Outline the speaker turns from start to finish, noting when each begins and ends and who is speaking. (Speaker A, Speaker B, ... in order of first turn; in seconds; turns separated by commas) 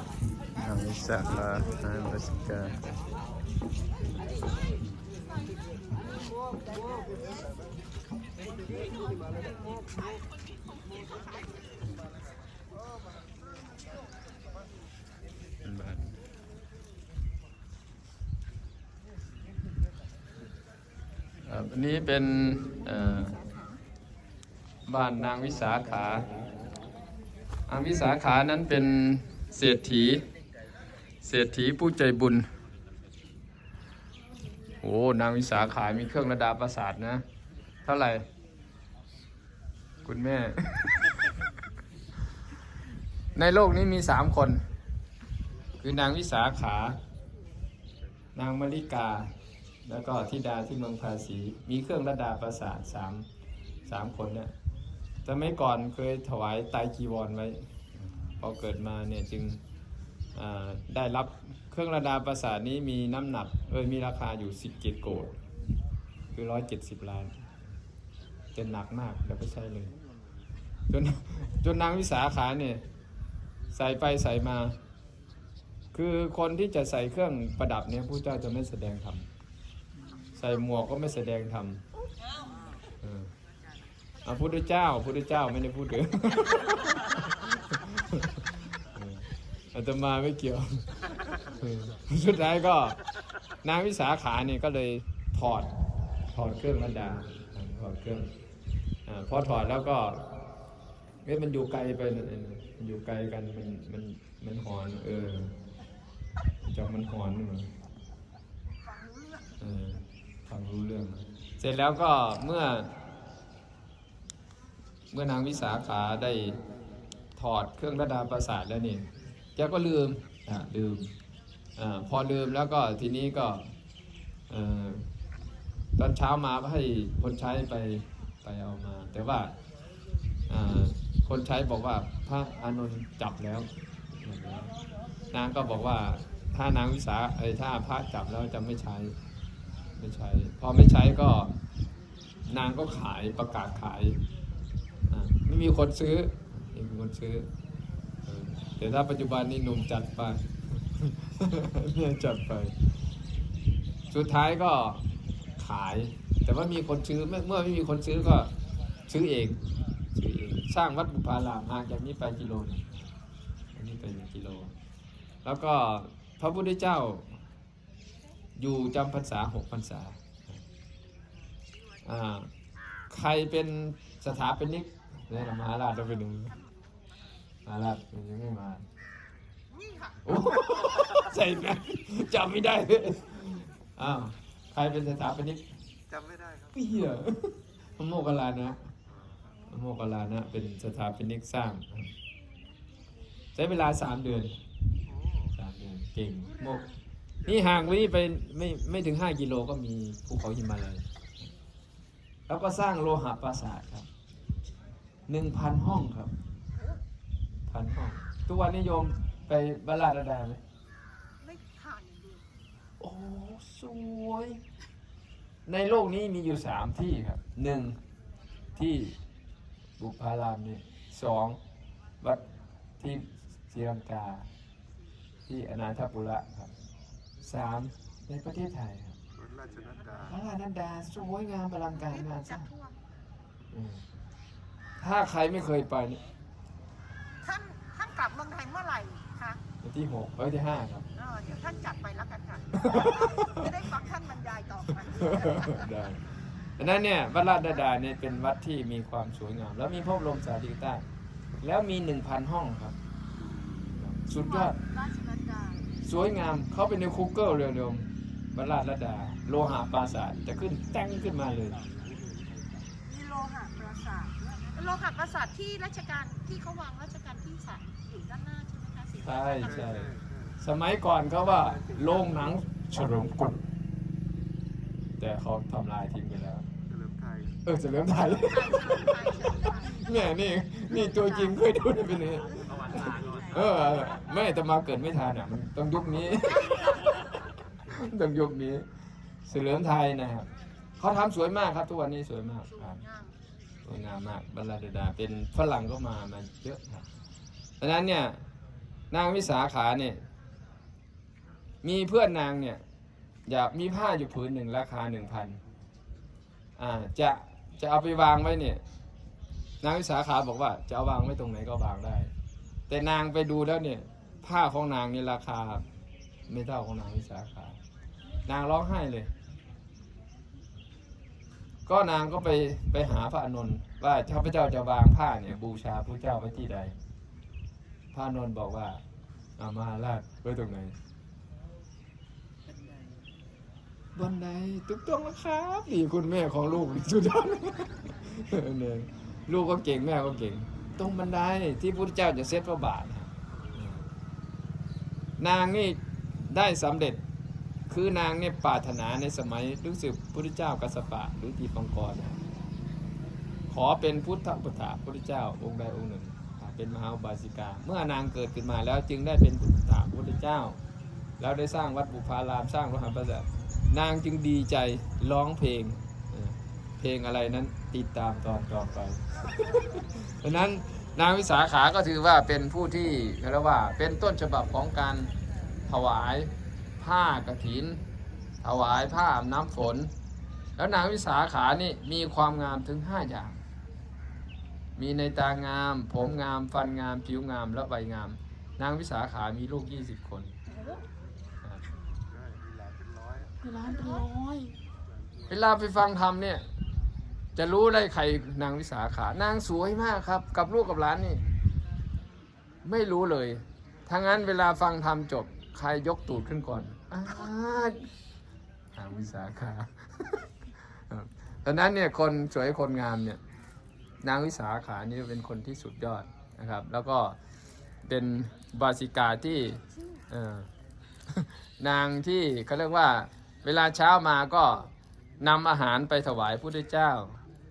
Speaker A: 0.6-2.9, Speaker B: 8.8-10.2, Speaker B: 10.9-11.5, Speaker A: 15.6-16.2, Speaker A: 21.4-23.4, Speaker A: 24.9-26.3, Speaker A: 27.7-30.2, Speaker A: 31.2-32.5, Speaker A: 34.8-37.2, Speaker A: 37.9-38.3, Speaker A: 40.0-41.1, Speaker A: 43.4-44.6, Speaker A: 45.8-47.0, Speaker A: 48.4-49.3, Speaker A: 49.9-53.3, Speaker A: 53.9-54.5, Speaker A: 55.2-59.6, Speaker A: 60.4-65.4, Speaker A: 66.3-67.4, Speaker A: 68.5-70.0, Speaker A: 70.9-72.9, Speaker A: 73.7-74.8, Speaker A: 75.9-79.3, Speaker A: 80.3-81.8, Speaker A: 83.0-83.3, Speaker A: 84.2-93.0, Speaker A: 93.6-95.7, Speaker A: 96.3-98.3, Speaker A: 99.1-100.4, Speaker A: 101.2-105.6, Speaker A: 106.6-107.7, Speaker B: 108.9-109.5, Speaker A: 109.6-113.0, Speaker A: 115.1-116.6, Speaker A: 117.4-121.1, Speaker A: 121.8-123.7, Speaker A: 124.5-125.1, Speaker A: 126.0-129.6, Speaker A: 130.5-134.8, Speaker A: 135.3-139.2, Speaker A: 140.0-141.6, Speaker A: 142.5-144.2, Speaker A: 145.1-147.5, Speaker A: 148.3-152.8, Speaker A: 154.1-155.1, Speaker A: 155.6-158.5, Speaker A: 159.1-159.6, Speaker A: 160.2-163.1, Speaker A: 163.8-164.7, Speaker A: 165.4-167.4, Speaker A: 168.6-170.6, Speaker A: 172.0-172.5, Speaker A: 173.1-176.6, Speaker A: 177.7-178.8, Speaker B: 179.7-180.7, Speaker A: 180.2-185.6, Speaker C: 186.1-186.7, Speaker A: 186.7-188.9, Speaker A: 189.7-192.1, Speaker A: 193.6-194.6, Speaker A: 195.5-196.9, Speaker A: 197.4-201.1, Speaker A: 202.5-204.1, Speaker A: 205.3-206.4, Speaker A: 207.7-210.6, Speaker B: 211.4-212.5, Speaker A: 213.0-214.6, Speaker A: 215.7-218.0, Speaker A: 218.8-219.2, Speaker A: 220.0-221.6, Speaker A: 223.0-224.5, Speaker A: 225.5-226.7, Speaker A: 227.4-229.2, Speaker C: 229.5-230.2, Speaker A: 230.2-232.7, Speaker B: 232.1-233.0, Speaker A: 233.7-234.0, Speaker A: 235.0-236.2, Speaker B: 237.4-239.6, Speaker A: 239.8-241.1, Speaker B: 241.1-245.9, Speaker A: 242.8-243.7, Speaker A: 244.9-251.0, Speaker A: 251.6-253.0, Speaker A: 253.9-254.8, Speaker B: 254.3-255.9, Speaker A: 256.0-261.8, Speaker B: 263.1-269.7, Speaker A: 269.2-273.6, Speaker C: 269.9-270.3, Speaker A: 275.2-276.7, Speaker C: 277.0-277.4, Speaker A: 277.6-287.3, Speaker B: 278.3-280.0, Speaker B: 281.0-281.6, Speaker B: 286.5-287.3, Speaker A: 287.8-288.9, Speaker A: 289.4-293.0, Speaker B: 292.7-293.4, Speaker A: 293.9-297.1, Speaker A: 297.8-298.4, Speaker A: 299.1-300.3, Speaker A: 301.8-302.8, Speaker A: 303.5-305.6, Speaker A: 306.8-308.8, Speaker A: 309.8-312.3, Speaker A: 312.9-315.9, Speaker A: 316.5-317.8, Speaker A: 318.5-319.3, Speaker A: 321.9-327.0, Speaker A: 328.1-329.0, Speaker A: 329.6-331.0, Speaker A: 334.1-344.1, Speaker A: 345.4-347.2, Speaker A: 347.9-352.4, Speaker A: 353.7-360.8, Speaker A: 361.4-375.3, Speaker A: 375.9-378.0, Speaker A: 378.6-380.1, Speaker A: 380.8-383.6, Speaker A: 385.0-390.6, Speaker B: 390.7-391.0, Speaker C: 392.3-393.5, Speaker A: 393.6-394.8, Speaker B: 393.9-394.3, Speaker A: 395.5-396.7, Speaker A: 397.6-401.4, Speaker A: 402.8-408.1, Speaker A: 408.9-413.4, Speaker A: 414.2-417.4, Speaker A: 418.1-420.7, Speaker A: 421.3-427.4